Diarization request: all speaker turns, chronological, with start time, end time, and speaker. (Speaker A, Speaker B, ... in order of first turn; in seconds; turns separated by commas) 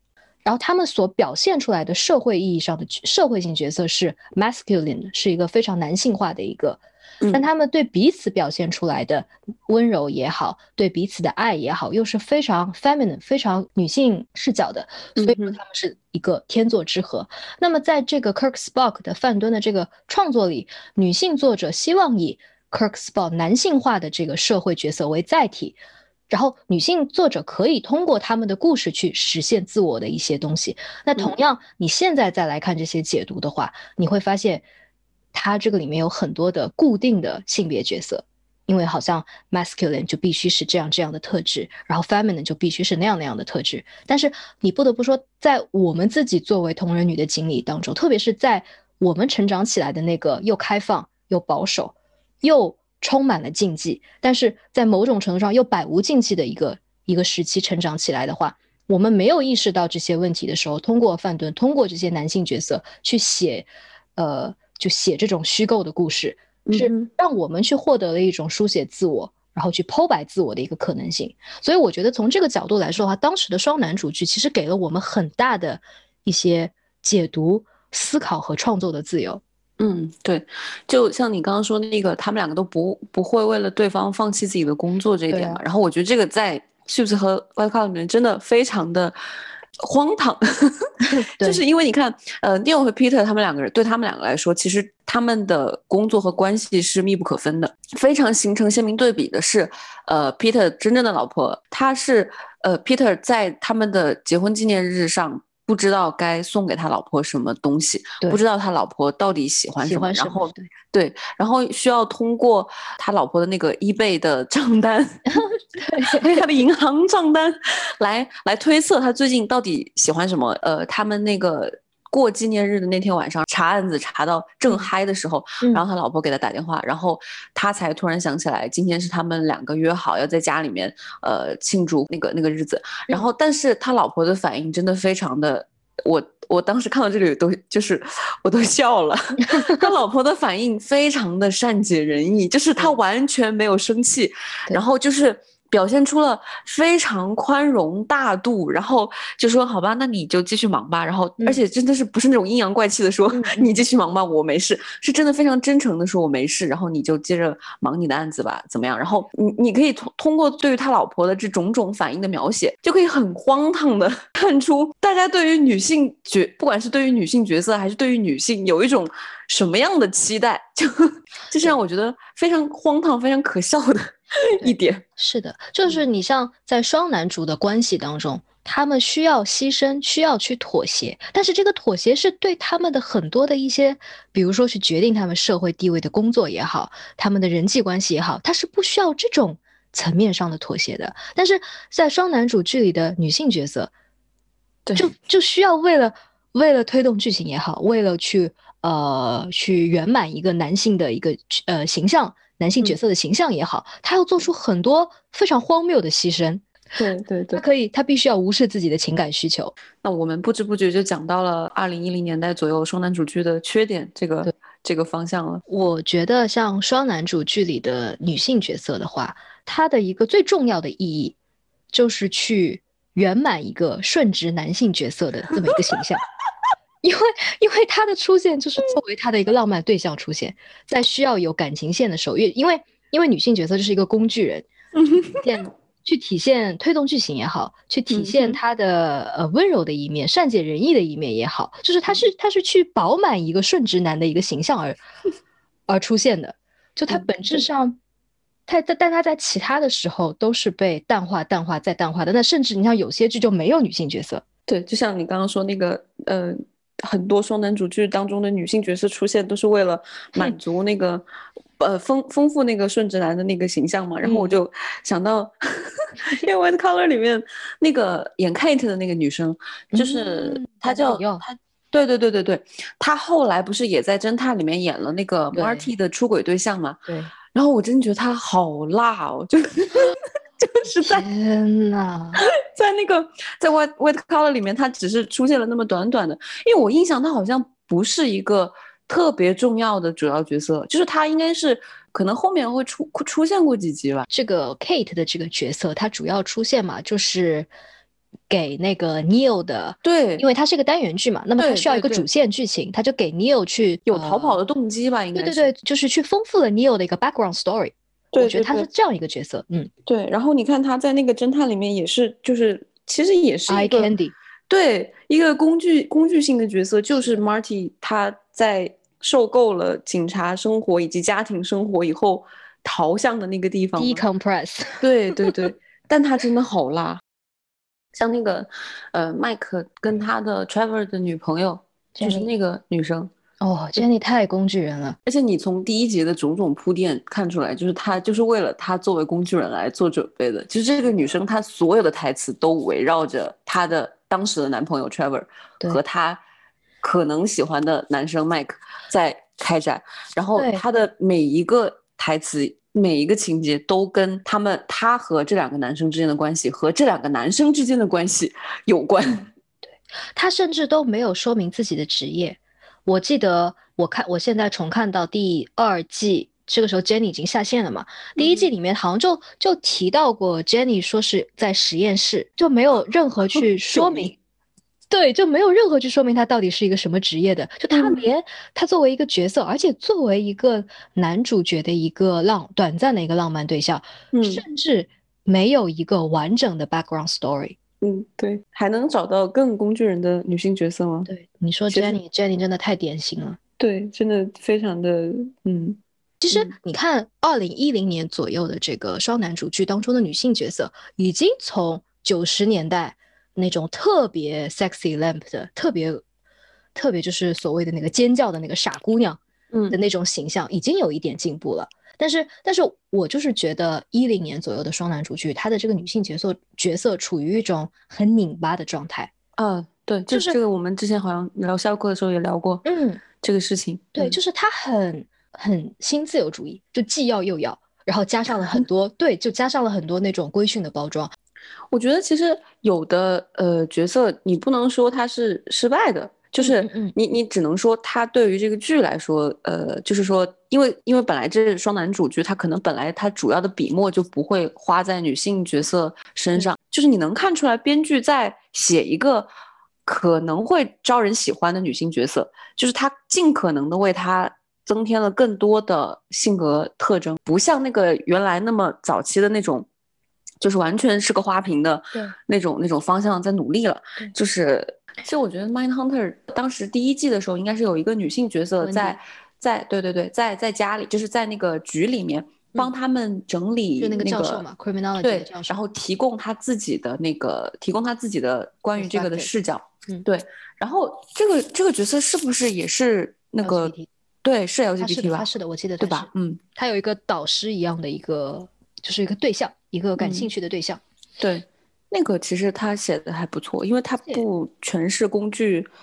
Speaker A: 0.5-34.7, Speaker B: 15.2-15.6, Speaker A: 35.3-79.4, Speaker B: 66.7-67.1, Speaker B: 79.8-89.2, Speaker A: 85.3-85.6, Speaker B: 89.8-115.4, Speaker A: 91.0-91.6, Speaker A: 109.8-110.7, Speaker A: 115.3-116.5, Speaker B: 116.0-175.0, Speaker A: 139.5-139.9, Speaker A: 153.3-153.8, Speaker A: 174.6-193.9, Speaker B: 194.9-195.1, Speaker A: 195.0-206.7, Speaker B: 207.0-207.6, Speaker A: 207.6-209.7, Speaker B: 210.0-215.6, Speaker A: 215.7-221.4, Speaker A: 221.9-226.2, Speaker A: 227.0-245.0, Speaker B: 235.0-235.5, Speaker B: 238.1-238.6, Speaker A: 245.9-248.0, Speaker B: 247.1-247.6, Speaker A: 248.7-254.4, Speaker B: 254.7-261.2, Speaker B: 261.8-281.3, Speaker A: 264.2-264.6, Speaker A: 269.9-271.4, Speaker A: 275.5-275.9, Speaker A: 277.1-277.3, Speaker A: 281.0-282.4, Speaker B: 282.4-294.3, Speaker A: 294.3-297.7, Speaker A: 298.5-304.6, Speaker B: 300.0-300.4, Speaker B: 301.6-302.3, Speaker B: 304.1-305.7, Speaker A: 305.4-309.9, Speaker B: 308.3-308.9, Speaker B: 310.1-314.1, Speaker A: 313.7-314.3, Speaker B: 314.7-324.2, Speaker A: 317.2-317.4, Speaker A: 324.0-325.7, Speaker B: 325.0-327.2, Speaker B: 328.1-333.3, Speaker A: 332.1-332.5, Speaker A: 333.6-335.2, Speaker B: 335.3-346.4, Speaker B: 347.0-359.5, Speaker A: 350.6-350.8, Speaker A: 359.9-374.3, Speaker B: 368.4-368.7, Speaker B: 373.9-374.3, Speaker A: 375.1-387.8, Speaker B: 377.9-378.3, Speaker B: 384.3-384.6, Speaker B: 388.0-391.3, Speaker A: 391.3-393.6, Speaker B: 393.8-396.0, Speaker A: 396.4-406.2, Speaker A: 406.9-409.4, Speaker B: 409.7-410.0, Speaker A: 409.9-419.3, Speaker B: 419.6-422.9, Speaker A: 420.3-420.6, Speaker A: 422.8-423.2, Speaker B: 423.4-424.4, Speaker A: 424.2-431.3, Speaker B: 431.9-449.5, Speaker A: 436.6-437.1, Speaker B: 450.1-459.9, Speaker B: 460.6-474.6, Speaker A: 468.8-469.2, Speaker A: 474.0-475.8, Speaker B: 475.2-486.6, Speaker A: 479.0-479.5, Speaker A: 483.6-484.1, Speaker A: 485.0-491.0, Speaker B: 490.2-490.5, Speaker B: 491.4-495.9